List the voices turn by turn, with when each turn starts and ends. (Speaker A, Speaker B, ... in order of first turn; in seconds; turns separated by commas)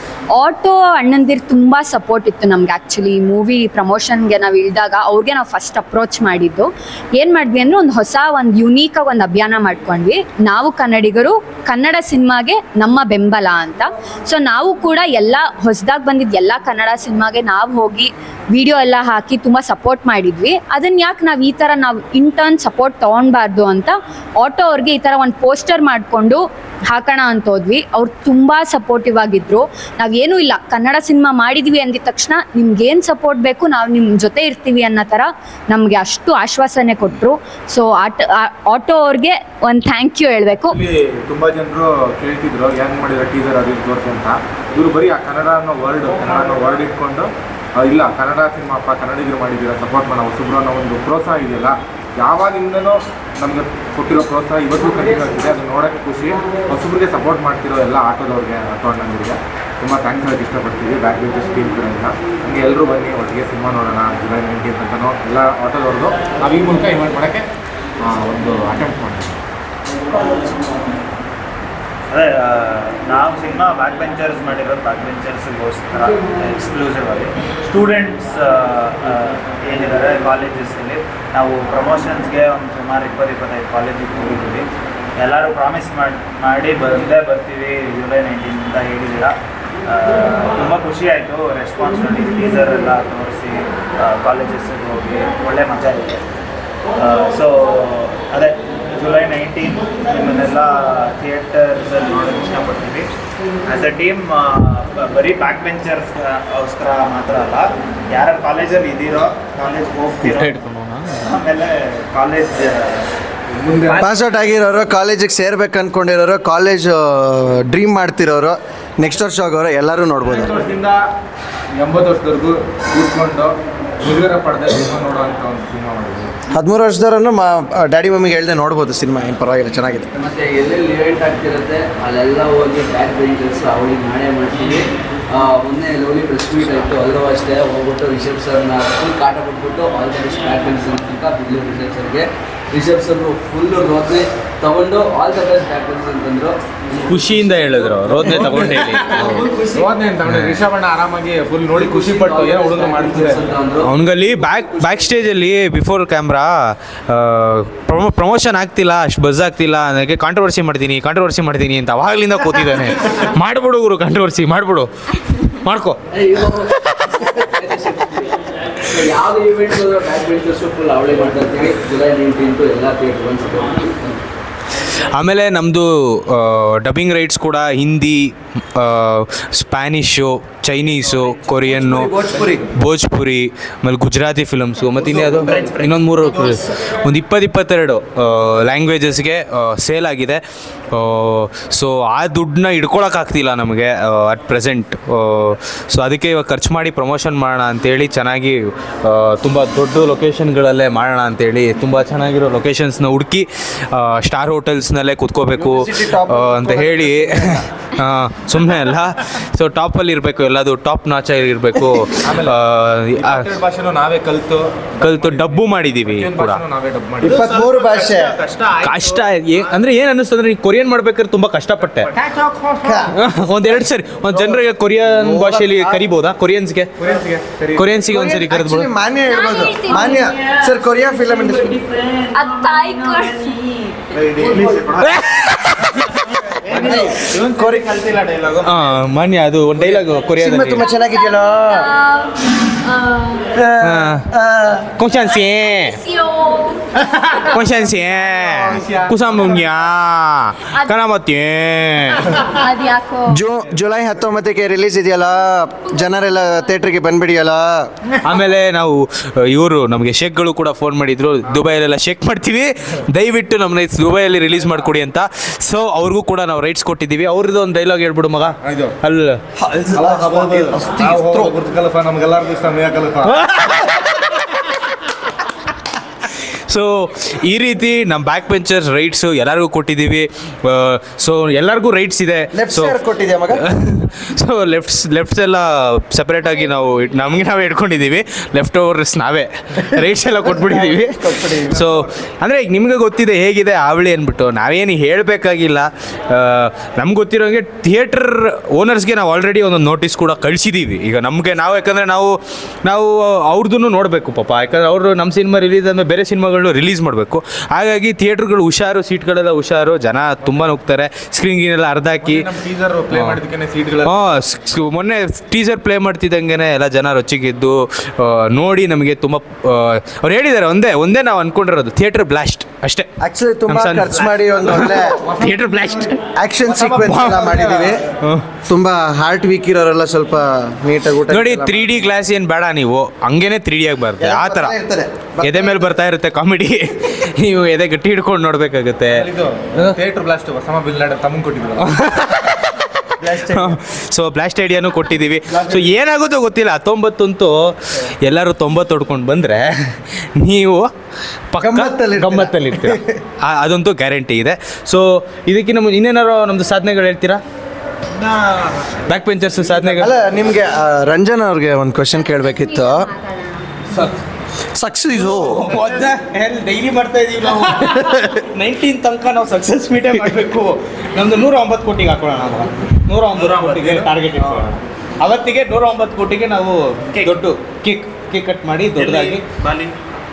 Speaker A: 0.3-40.8, Speaker B: 40.6-67.5, Speaker B: 68.0-69.3, Speaker C: 72.1-89.4, Speaker C: 89.9-96.2, Speaker C: 97.0-103.1, Speaker C: 103.7-110.6, Speaker D: 110.2-111.3, Speaker C: 111.2-113.1, Speaker B: 113.5-114.1, Speaker E: 114.0-120.6, Speaker B: 120.3-121.0, Speaker B: 121.8-126.3, Speaker E: 126.5-130.1, Speaker F: 130.2-146.6, Speaker D: 147.0-149.5, Speaker F: 147.7-149.8, Speaker B: 148.2-153.6, Speaker D: 150.2-150.6, Speaker F: 151.7-153.9, Speaker D: 153.8-166.5, Speaker F: 154.7-155.1, Speaker F: 166.1-174.2, Speaker D: 174.8-190.4, Speaker F: 181.8-182.6, Speaker C: 185.0-186.6, Speaker D: 190.9-213.5, Speaker E: 205.6-207.7, Speaker B: 212.2-212.6, Speaker B: 213.2-217.4, Speaker D: 215.0-216.6, Speaker E: 217.2-218.4, Speaker C: 217.2-219.8, Speaker D: 218.8-222.1, Speaker B: 222.1-223.1, Speaker E: 222.8-223.1, Speaker D: 223.2-226.9, Speaker E: 224.3-226.0, Speaker B: 227.0-227.9, Speaker D: 227.8-228.9, Speaker E: 228.1-231.8, Speaker A: 229.3-230.3, Speaker C: 232.0-232.3, Speaker A: 232.3-233.7, Speaker C: 234.0-235.2, Speaker D: 235.0-236.1, Speaker C: 236.5-239.0, Speaker E: 236.7-237.8, Speaker D: 238.6-240.9, Speaker E: 240.4-241.9, Speaker A: 240.8-243.6, Speaker E: 243.6-244.9, Speaker D: 243.8-244.3, Speaker D: 245.0-246.0, Speaker A: 245.3-247.6, Speaker D: 247.4-252.3, Speaker A: 250.7-250.9, Speaker A: 252.3-253.4, Speaker E: 253.3-257.9, Speaker D: 258.2-269.4, Speaker B: 268.6-268.9, Speaker E: 269.6-271.5, Speaker B: 269.9-273.4, Speaker D: 273.2-274.4, Speaker D: 276.4-283.0, Speaker E: 282.5-283.7, Speaker D: 283.6-312.5, Speaker E: 290.4-292.1, Speaker B: 312.2-314.5, Speaker D: 313.1-313.4, Speaker D: 314.0-323.1, Speaker E: 323.2-325.3, Speaker D: 323.7-326.2, Speaker B: 325.3-325.6, Speaker E: 326.4-328.0, Speaker B: 326.7-328.0, Speaker D: 327.1-327.3, Speaker D: 328.2-328.5, Speaker E: 328.7-332.0, Speaker D: 331.3-334.8, Speaker E: 334.2-335.9, Speaker D: 335.4-340.0, Speaker B: 339.1-341.9, Speaker D: 341.8-350.9, Speaker E: 343.2-343.7, Speaker B: 345.5-345.9, Speaker D: 351.5-357.4, Speaker E: 351.6-353.1, Speaker C: 358.1-359.0, Speaker D: 359.1-360.1, Speaker E: 360.0-363.1, Speaker A: 362.4-363.7, Speaker E: 364.7-365.8, Speaker D: 365.2-379.4, Speaker C: 373.3-374.7, Speaker C: 377.1-377.4, Speaker C: 378.9-380.0